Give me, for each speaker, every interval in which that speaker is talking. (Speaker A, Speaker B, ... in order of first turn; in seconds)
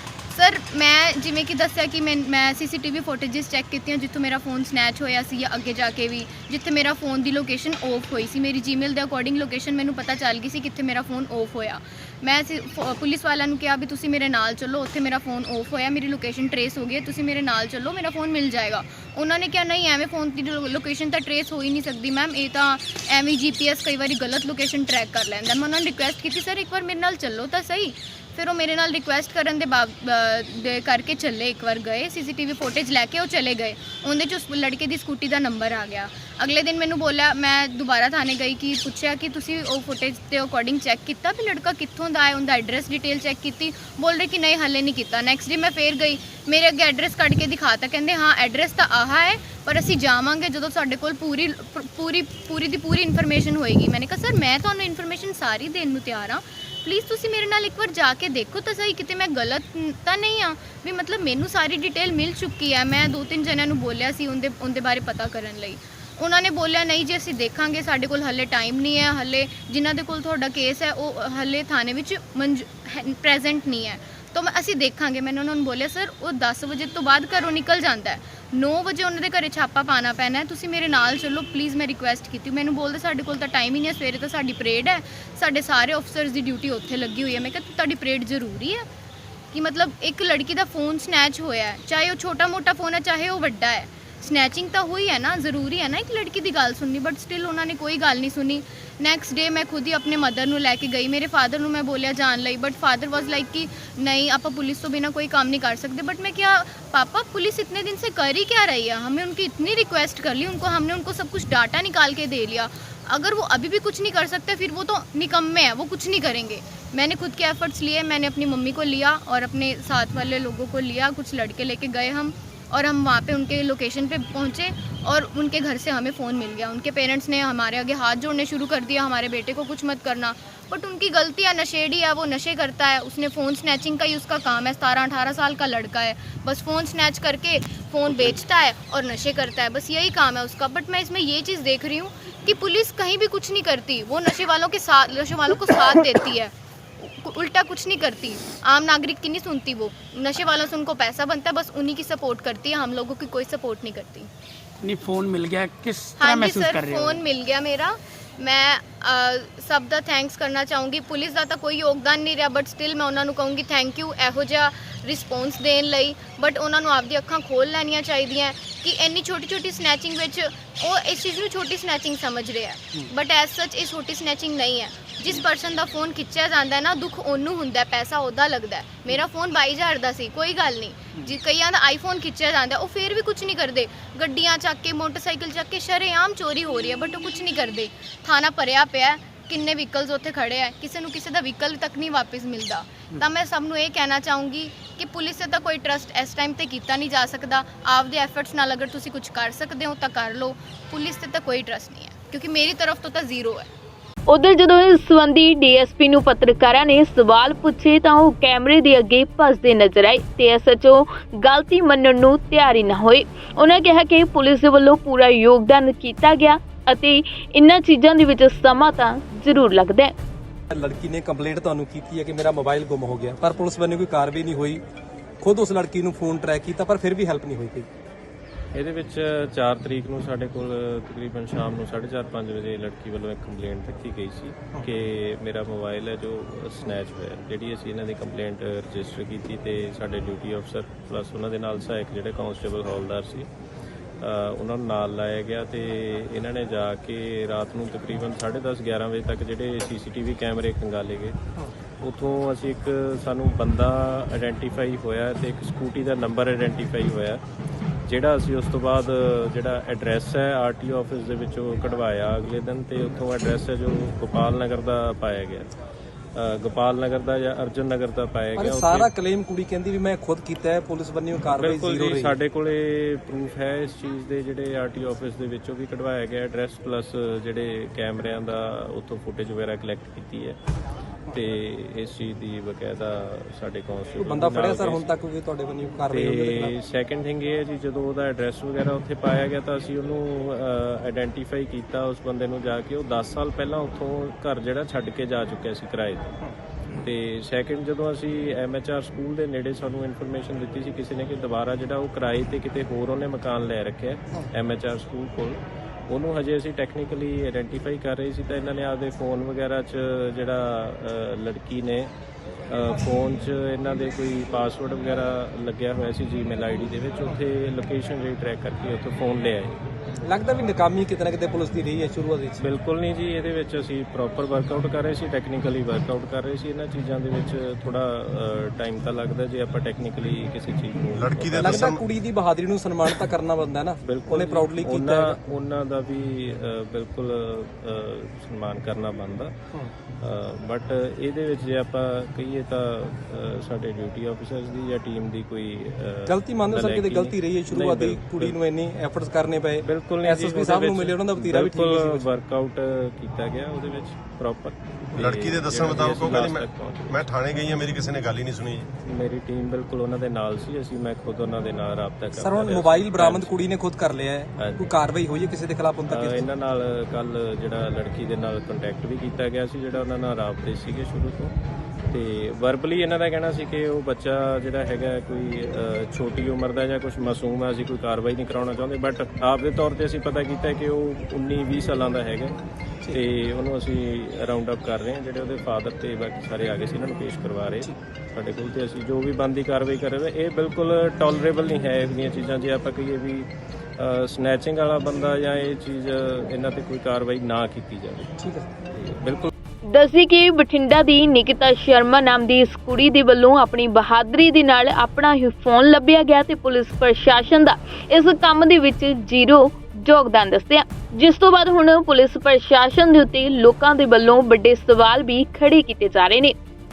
Speaker A: 0.3-88.8, 89.5-154.3, 156.2-203.7
Speaker B: 154.8-157.2
Speaker C: 204.3-220.1, 399.9-416.6
Speaker D: 220.7-224.8, 225.4-227.9, 268.6-272.4, 284.2-286.8, 320.2-322.6, 331.5-335.4, 346.3-352.3, 362.4-366.4, 398.4-398.7
Speaker E: 228.7-243.5, 244.2-251.3, 252.0-257.4, 258.1-265.7, 266.4-269.1, 271.5-280.6, 281.3-285.0, 286.1-296.3, 297.0-312.1, 312.7-319.8, 322.6-332.0, 334.0-339.5, 340.2-348.6, 349.8-357.4, 359.1-363.5, 364.6-364.9, 366.1-371.5, 372.1-382.5, 383.1-398.4, 398.9-399.5
Speaker F: 331.1-332.0, 355.1-358.9